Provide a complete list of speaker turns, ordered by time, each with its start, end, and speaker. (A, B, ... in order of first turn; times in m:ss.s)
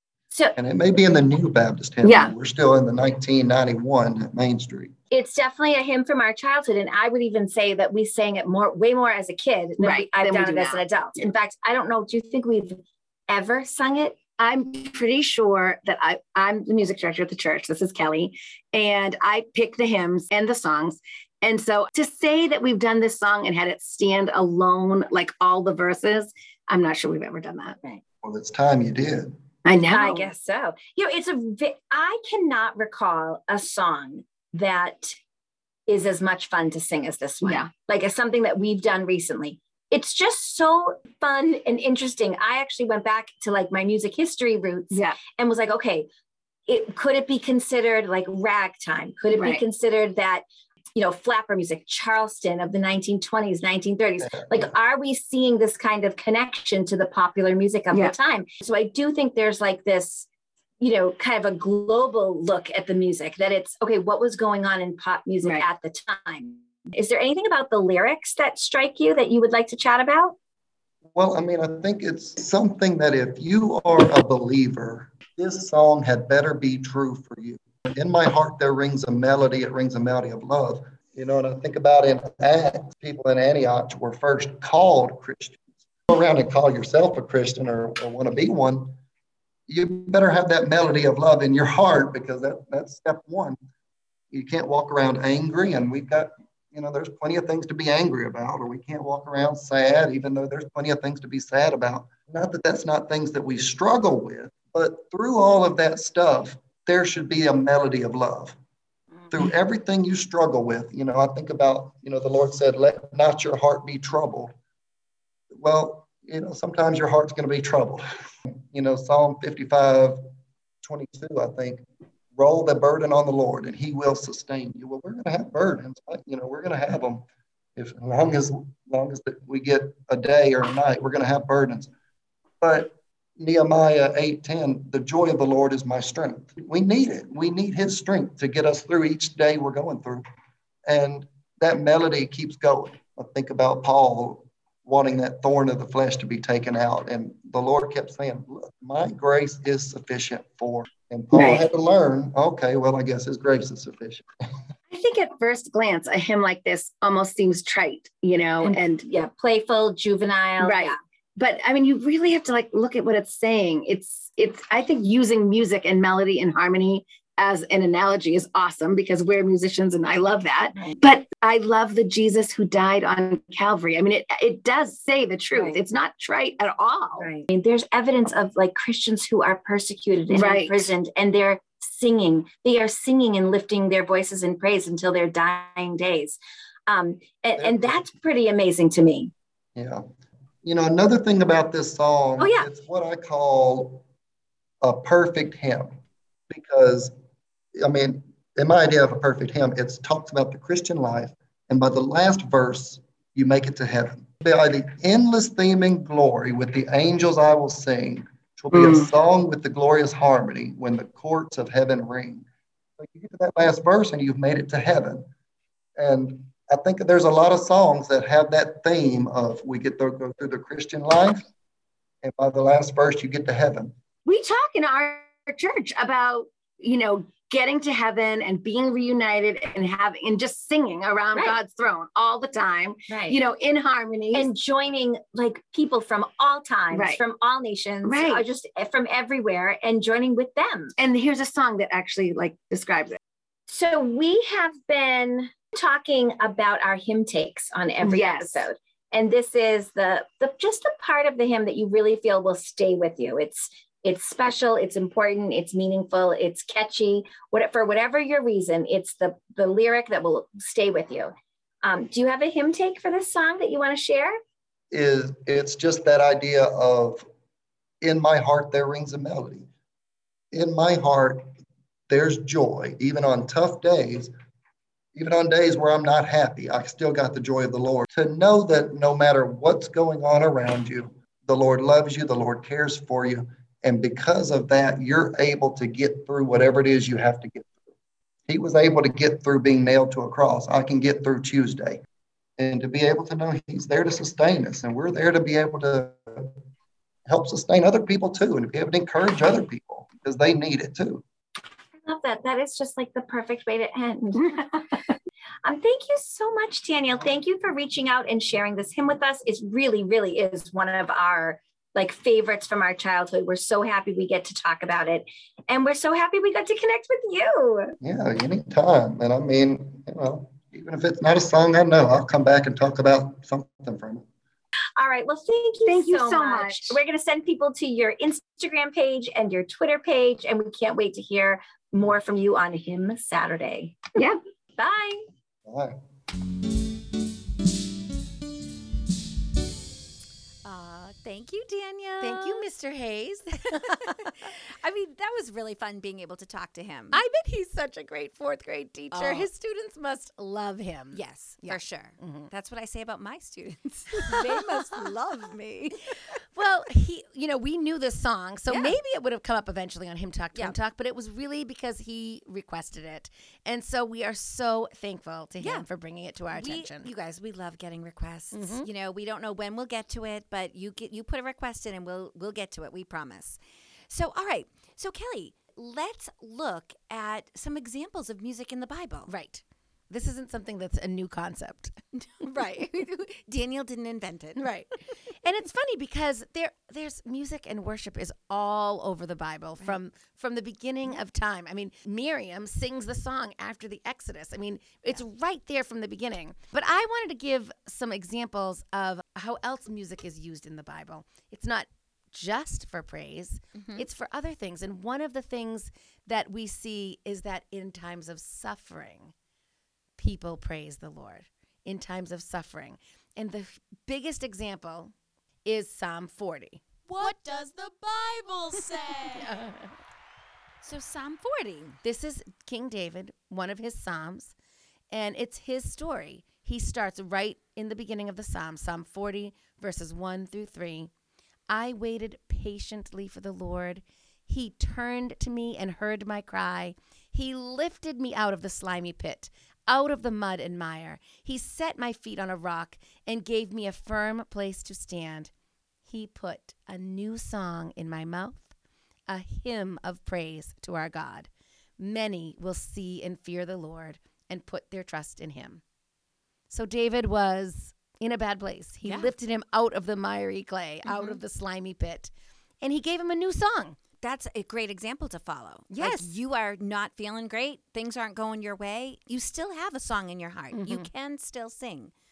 0:00.3-0:00.6 A
0:00.6-0:04.9 B
0:02.0-0:02.3 C
0:05.1-0:14.2 A
0:09.8-0:11.3 C
0:14.4-0:27.8 C
0:28.2-0:29.4 B
0:29.6-0:30.3 C
0:29.8-0:35.2 A
0:35.9-0:46.1 A
0:37.4-0:37.7 C
0:44.9-0:45.2 C
0:46.7-1:00.3 A
0:49.3-0:49.6 C
0:54.2-0:54.7 B
1:00.8-1:10.4 A
1:11.2-1:29.0 B
1:29.7-1:33.6 B
1:34.3-1:48.6 B
1:49.3-1:54.5 B
1:55.5-2:00.2 B
2:00.8-2:07.2 B
2:07.8-2:11.9 B
2:12.6-2:20.2 B
2:20.9-2:34.2 B
2:31.4-2:31.6 C
2:34.9-2:39.1 C
2:38.6-2:41.0 A
2:40.6-2:57.3 C
2:55.5-2:55.8 A
2:57.2-3:09.3 A
3:00.3-3:00.9 C
3:07.6-3:07.9 B
3:09.8-3:10.0 B
3:10.6-3:14.0 B
3:12.4-3:12.7 A
3:14.8-3:17.1 B
3:17.8-3:32.5 B
3:28.7-3:29.1 C
3:33.0-3:35.3 B
3:36.0-3:41.5 B
3:42.2-3:44.0 B
3:44.3-3:54.5 C
3:53.1-3:53.4 A
3:54.3-4:00.9 A
3:56.9-3:57.2 C
3:58.0-3:58.4 C
4:01.0-4:03.2 C
4:03.7-4:24.4 A
4:08.0-4:08.6 C
4:24.9-4:27.2 B
4:28.0-4:29.7 B
4:30.5-4:31.5 B
4:32.1-4:34.3 B
4:35.2-4:47.7 B
4:48.5-4:52.0 B
4:52.6-4:56.6 B
4:57.3-5:01.2 B
5:02.0-5:04.8 A
5:05.6-5:18.0 A
5:18.0-5:24.2 B
5:25.0-5:34.0 A
5:25.9-5:27.0 C
5:34.8-5:35.3 A
5:35.7-5:36.0 B
5:40.6-5:42.7 D
5:42.2-5:44.5 E
5:43.9-5:47.2 D
5:47.1-5:52.5 E
5:49.1-5:49.5 D
5:51.1-5:56.2 D
5:54.2-5:55.0 E
5:56.6-6:07.1 E
5:58.7-5:59.0 D
6:06.5-6:19.3 D
6:08.5-6:08.9 E
6:19.3-6:22.9 E
6:22.1-6:24.7 D
6:24.6-6:49.3 E
6:43.8-6:44.0 D
6:50.2-6:55.1 E
6:55.6-6:56.8 E
6:57.1-6:59.6 F
6:59.4-7:00.0 E
7:00.8-7:02.0 D
7:02.0-7:04.6 E
7:05.1-7:11.1 E
7:11.7-7:25.5 E
7:26.1-7:28.7 E
7:29.3-7:35.8 E
7:36.7-7:44.0 E
7:39.0-7:39.3 D
7:41.0-7:41.4 D
7:44.2-7:52.1 D
7:45.9-7:46.3 E
7:50.7-7:51.1 E